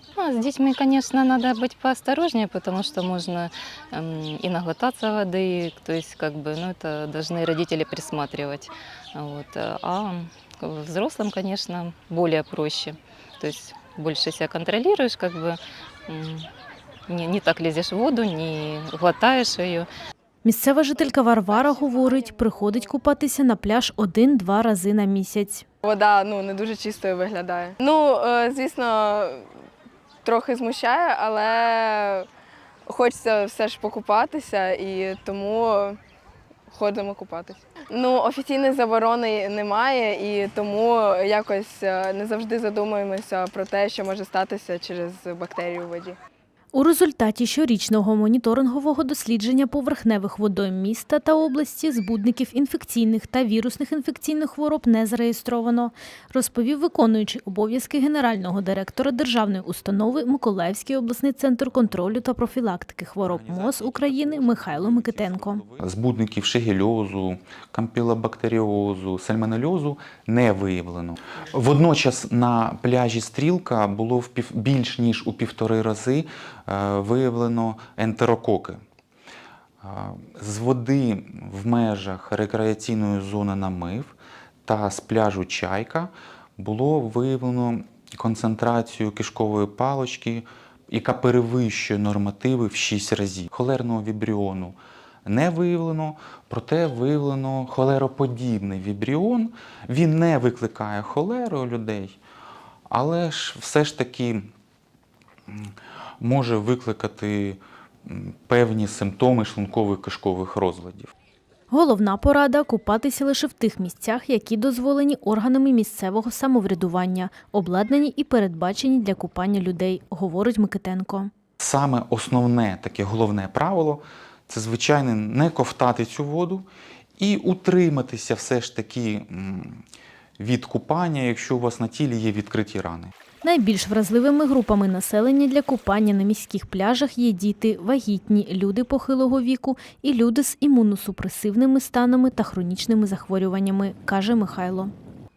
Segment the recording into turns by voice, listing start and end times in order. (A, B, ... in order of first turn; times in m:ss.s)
0:00.2-0:16.5 A
0:17.1-0:19.9 A
0:20.4-0:25.6 B
0:21.5-0:22.9 C
0:25.8-0:29.5 C
0:30.2-0:32.3 C
0:32.9-0:36.0 C
0:36.7-0:46.2 C
0:46.7-1:05.6 B
1:03.2-1:18.8 D
1:19.8-1:42.2 D
1:42.9-1:44.5 D
1:45.5-1:51.1 D
1:51.7-2:01.3 B
2:01.6-2:09.8 D
2:10.4-2:13.1 D
2:13.4-2:24.9 B